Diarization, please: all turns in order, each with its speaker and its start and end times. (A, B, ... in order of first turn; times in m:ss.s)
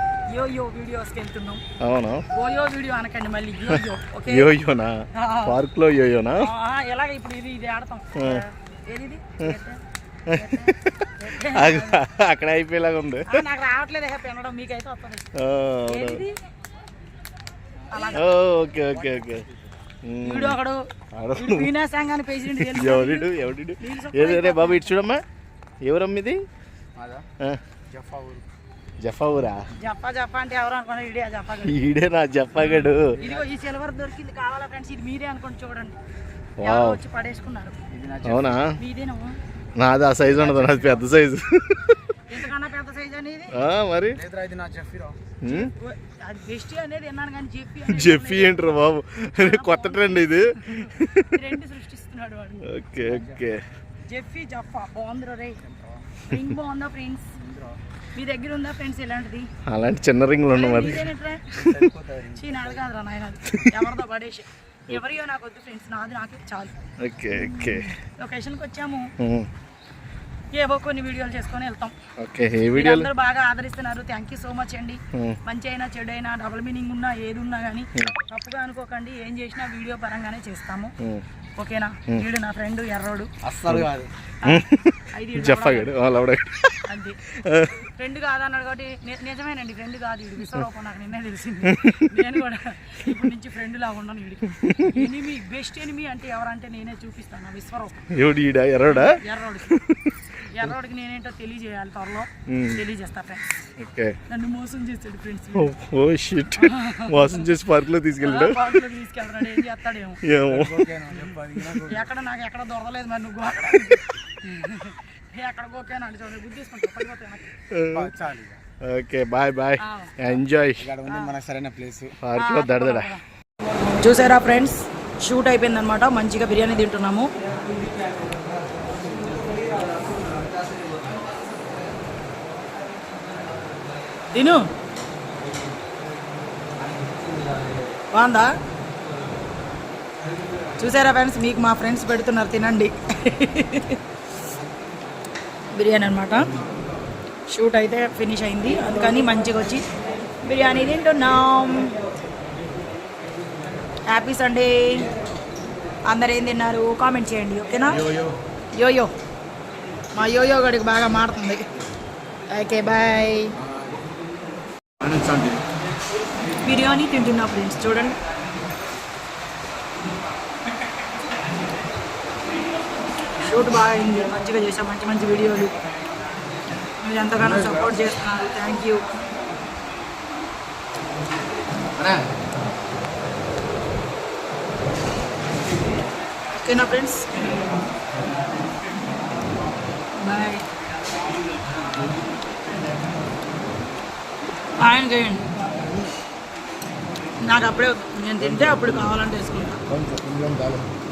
0:00.3-0:01.6 A
0:01.8-0:02.2 B
0:02.3-0:04.5 A
0:03.7-0:06.5 B
0:05.1-0:05.6 A
0:06.4-0:12.0 A
0:08.1-0:08.4 B
0:10.3-0:13.3 B
0:13.3-0:15.3 A
0:15.3-0:16.2 B
0:15.8-0:16.4 A
0:17.8-0:18.2 C
0:17.9-0:18.3 A
0:18.1-0:19.4 B
0:18.8-0:19.7 C
0:20.0-0:20.6 B
0:20.2-0:25.0 A
0:21.1-0:21.7 B
0:22.5-0:25.2 B
0:25.8-0:26.4 B
0:27.0-0:27.3 C
0:27.9-0:28.4 C
0:29.0-0:29.6 B
0:29.8-0:31.8 A
0:31.6-0:33.2 B
0:32.6-0:36.0 A
0:33.1-0:33.5 C
0:36.6-0:37.0 B
0:36.6-0:37.8 A
0:37.9-0:38.6 C
0:38.2-0:38.7 B
0:38.8-0:39.4 A
0:39.8-0:42.0 B
0:40.2-0:41.0 C
0:42.3-0:43.6 A
0:43.5-0:44.2 B
0:44.1-0:45.2 C
0:45.4-0:45.7 B
0:45.4-0:48.7 A
0:47.9-0:51.4 B
0:49.4-0:52.7 A
0:52.6-0:53.6 B
0:53.0-0:53.4 C
0:54.0-0:55.6 A
0:55.6-0:56.2 C
0:56.3-0:57.3 A
0:57.4-0:57.8 C
0:58.1-0:59.5 A
0:59.6-1:01.1 B
1:00.5-1:01.7 A
1:01.5-1:02.8 C
1:02.4-1:06.8 A
1:07.0-1:07.9 B
1:07.3-1:09.1 A
1:09.2-1:09.5 B
1:10.5-1:11.9 A
1:12.2-1:13.1 B
1:12.7-1:20.9 A
1:15.1-1:15.4 B
1:21.6-1:23.3 A
1:23.4-1:24.1 C
1:24.4-1:25.9 A
1:24.4-1:26.8 B
1:26.8-1:27.2 A
1:27.3-1:27.8 B
1:27.8-1:38.1 A
1:31.7-1:32.0 B
1:34.6-1:35.0 B
1:38.1-1:40.2 B
1:38.8-1:39.8 A
1:40.4-1:43.5 A
1:42.5-1:42.8 B
1:43.8-1:44.2 B
1:44.3-1:45.7 A
1:45.6-1:48.7 B
1:46.6-1:47.4 A
1:48.2-1:50.2 A
1:50.2-1:50.8 B
1:50.4-1:52.1 C
1:51.7-1:57.5 A
1:57.7-1:58.1 B
1:57.9-1:58.6 C
1:58.8-2:00.9 B
1:59.8-2:00.2 A
2:00.8-2:02.2 C
2:01.0-2:01.3 A
2:02.2-2:03.1 B
2:02.4-2:03.2 A
2:04.0-2:07.3 A
2:14.3-2:14.7 A
2:18.1-2:18.5 A
2:20.8-2:24.0 A
2:25.7-2:26.5 A
2:27.5-2:29.8 A
2:30.4-2:31.9 A
2:34.1-2:35.1 A
2:36.0-2:38.1 A
2:38.0-2:38.3 C
2:38.7-2:39.1 A
2:40.1-2:41.7 A
2:42.5-2:43.6 A
2:43.6-2:43.9 C
2:45.0-2:45.6 C
2:46.6-2:48.2 A
2:53.4-2:55.7 A
2:57.0-2:59.1 A
2:57.4-2:57.8 C
3:06.6-3:07.3 A
3:10.2-3:10.6 A
3:14.8-3:15.4 A
3:17.4-3:19.8 A
3:18.5-3:19.0 C
3:19.9-3:20.9 C